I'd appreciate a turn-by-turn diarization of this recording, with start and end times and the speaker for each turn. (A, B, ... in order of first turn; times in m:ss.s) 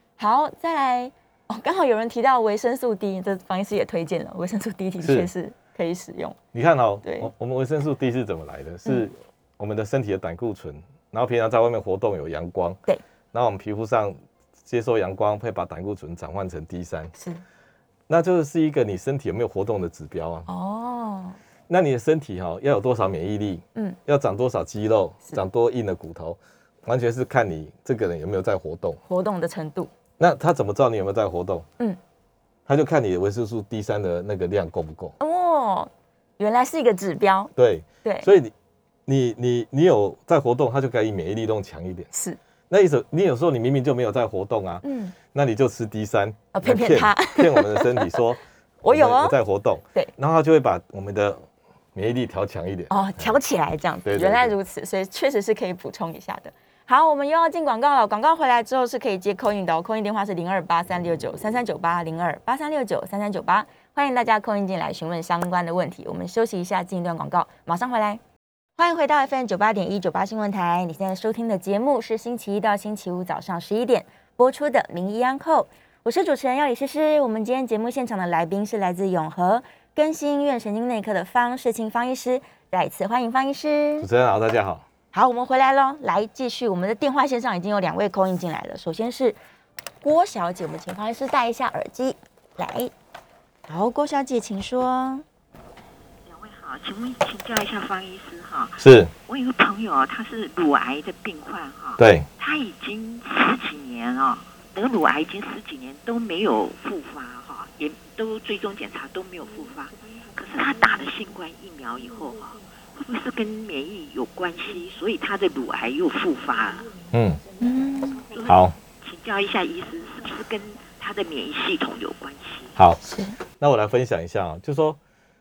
0:00.2-0:06.4 A
0:05.0-0:05.3 B
0:06.5-0:12.8 B
0:07.0-0:07.3 A
0:13.3-0:17.1 B
0:17.1-0:17.4 A
0:18.1-0:20.5 B
0:20.5-0:21.4 A
0:21.7-0:29.0 B
0:29.1-0:29.9 A
0:30.2-0:31.7 B
0:32.7-0:35.1 B
0:35.2-0:37.5 A
0:37.6-0:38.5 B
0:38.0-0:38.3 A
0:39.1-0:42.1 B
0:42.1-0:42.4 A
0:42.7-0:53.3 B
0:44.8-0:45.1 A
0:46.5-0:48.2 A
0:48.8-0:49.3 A
0:52.9-1:08.2 A
0:54.0-0:54.5 B
1:08.8-1:24.1 A
1:24.0-1:24.8 B
1:25.1-1:29.4 A
1:30.0-1:32.9 A
1:33.7-1:35.2 A
1:36.2-1:57.0 C
1:38.8-1:39.1 B
1:42.0-1:42.2 B
1:57.1-1:57.4 B
1:57.6-1:58.2 A
1:58.3-2:02.7 C
1:58.4-1:58.7 B
2:02.8-2:03.0 B
2:03.0-2:03.4 A
2:03.6-2:05.0 B